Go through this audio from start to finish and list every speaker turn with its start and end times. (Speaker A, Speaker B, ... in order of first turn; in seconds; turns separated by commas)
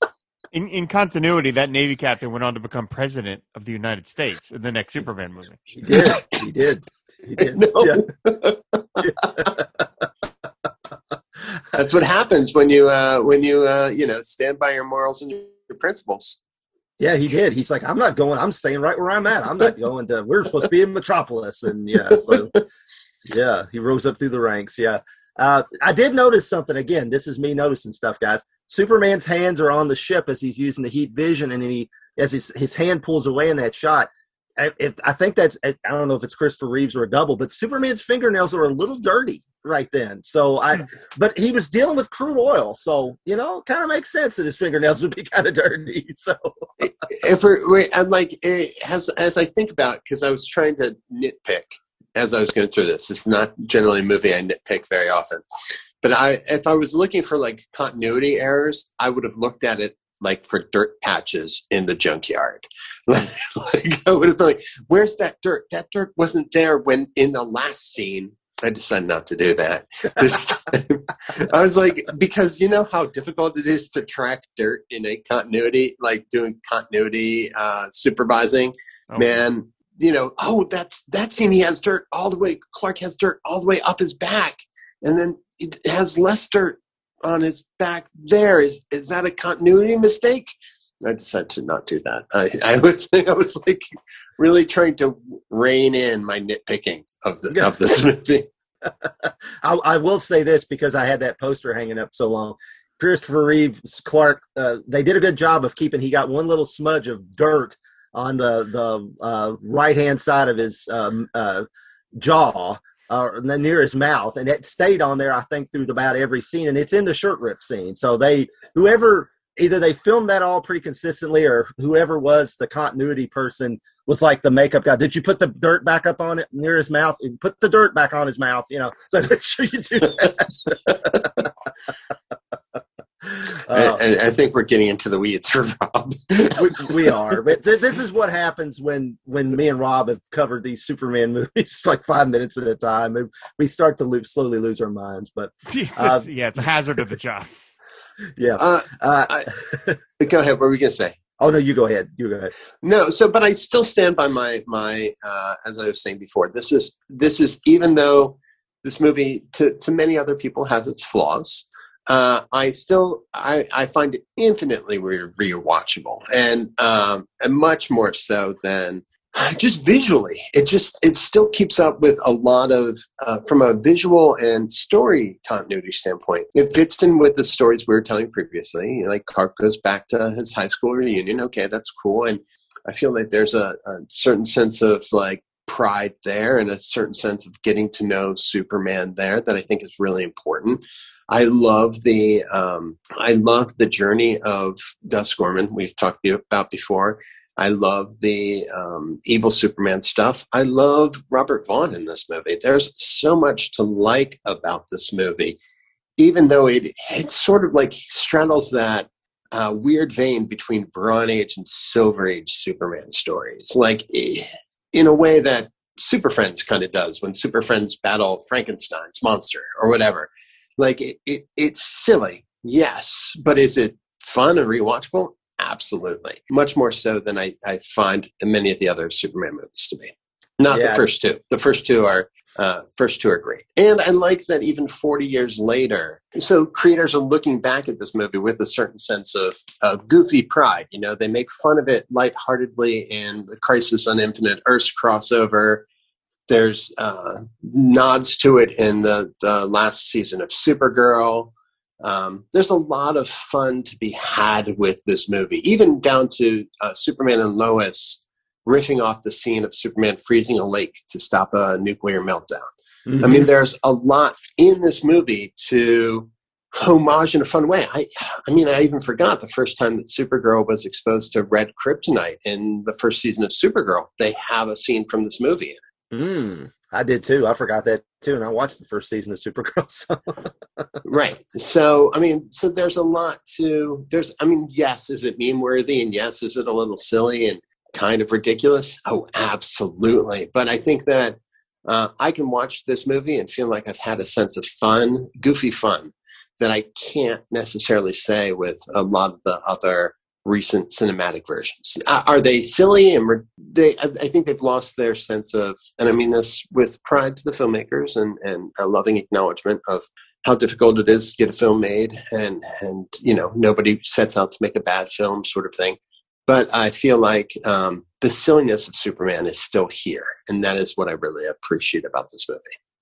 Speaker A: 0.5-5.6, Speaker B: 5.8-8.1, Speaker C: 5.9-6.2, Speaker C: 7.4-9.1, Speaker B: 9.0-9.9, Speaker C: 11.7-16.4, Speaker B: 17.0-22.6, Speaker C: 22.2-22.6, Speaker B: 23.3-46.7, Speaker C: 46.8-55.4, Speaker C: 56.0-93.8, Speaker A: 79.1-79.4, Speaker C: 94.4-98.5, Speaker B: 98.8-111.7, Speaker B: 112.2-131.4, Speaker B: 133.3-134.0, Speaker C: 133.7-137.2, Speaker B: 136.6-146.3, Speaker A: 145.7-147.5, Speaker B: 148.4-150.0, Speaker C: 148.6-149.5, Speaker C: 150.2-151.2, Speaker B: 151.4-152.5, Speaker C: 152.8-205.6, Speaker C: 206.2-245.8, Speaker B: 230.7-231.1, Speaker C: 246.5-275.8, Speaker B: 263.1-263.5, Speaker B: 276.1-280.9, Speaker C: 281.0-322.8